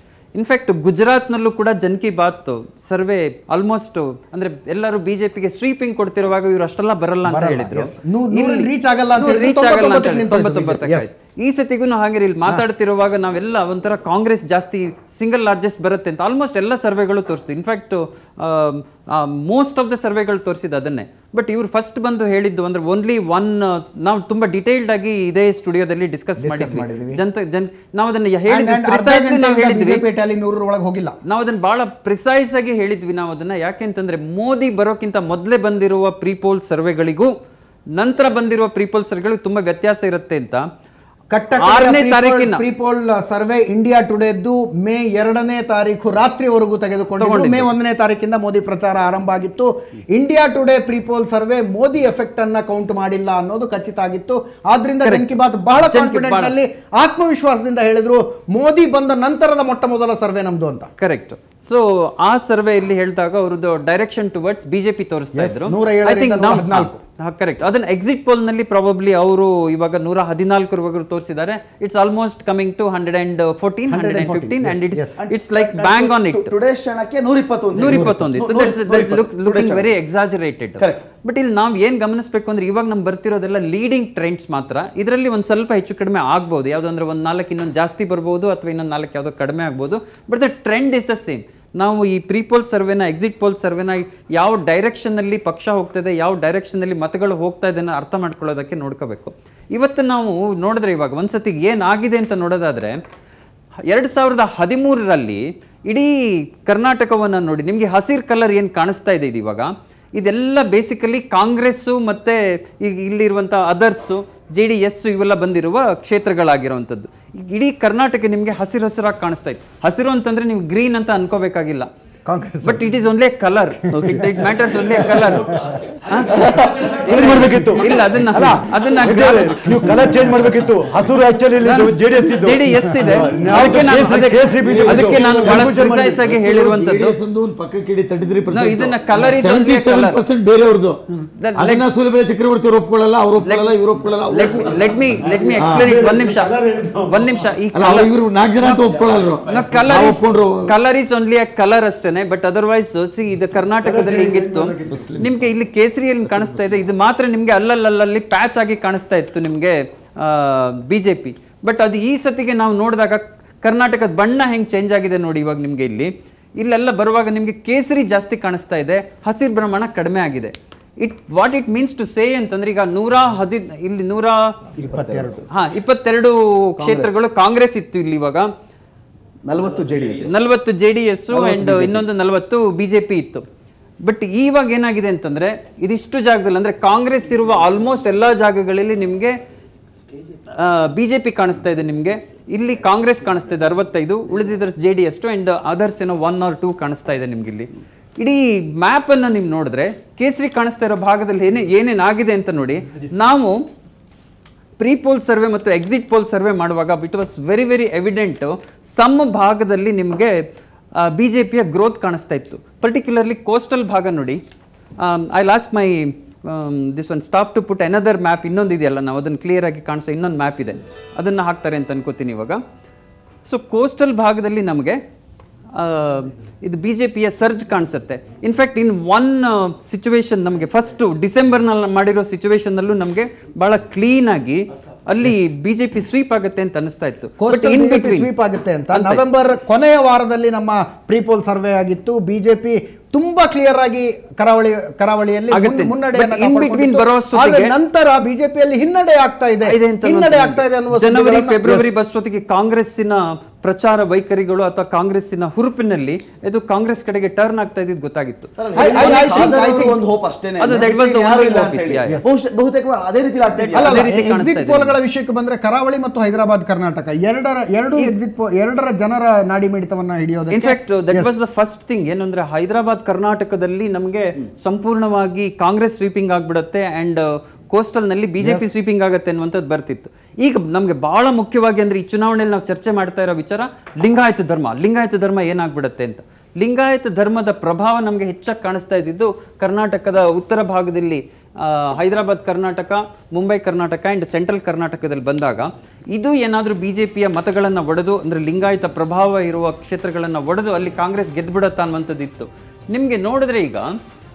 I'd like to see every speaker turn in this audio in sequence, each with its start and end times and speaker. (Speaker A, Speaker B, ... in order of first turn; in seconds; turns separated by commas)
Speaker A: 0.3-30.0, Speaker B: 7.2-11.1, Speaker B: 26.4-27.2, Speaker B: 28.5-31.2, Speaker A: 31.2-37.3, Speaker A: 37.9-40.6, Speaker B: 41.3-60.9, Speaker A: 41.6-42.6, Speaker A: 47.2-47.7, Speaker A: 55.0-56.5, Speaker A: 61.0-76.5, Speaker B: 65.3-67.0, Speaker B: 73.9-75.1, Speaker C: 75.1-79.9, Speaker A: 77.8-103.0, Speaker B: 77.8-78.2, Speaker A: 103.9-106.1, Speaker A: 106.7-121.9, Speaker B: 122.2-122.9, Speaker A: 122.6-130.1, Speaker B: 123.9-124.4, Speaker D: 125.1-128.1, Speaker E: 127.0-136.2, Speaker A: 131.6-137.2, Speaker D: 133.1-141.0, Speaker A: 138.5-140.2, Speaker A: 141.4-141.9, Speaker D: 141.6-145.9, Speaker A: 143.4-146.6, Speaker E: 145.2-147.2, Speaker A: 147.1-148.1, Speaker D: 147.7-150.7, Speaker A: 149.4-174.5, Speaker E: 153.8-155.1, Speaker D: 154.8-155.5, Speaker D: 156.3-156.8, Speaker B: 174.8-175.4, Speaker C: 174.8-175.4, Speaker A: 175.5-178.5, Speaker C: 176.8-177.1, Speaker C: 179.4-180.3, Speaker A: 180.2-183.4, Speaker C: 181.3-182.0, Speaker A: 184.0-189.4, Speaker A: 190.5-203.6, Speaker A: 204.8-210.4, Speaker A: 211.0-214.4, Speaker A: 215.0-222.6, Speaker A: 223.4-225.0, Speaker A: 225.7-238.3, Speaker B: 237.4-251.9, Speaker A: 238.9-239.2, Speaker A: 245.5-247.7, Speaker A: 249.7-259.4, Speaker C: 258.6-264.1, Speaker B: 258.7-260.0, Speaker A: 260.6-262.2, Speaker B: 263.6-271.3, Speaker A: 263.7-264.9, Speaker A: 270.5-303.9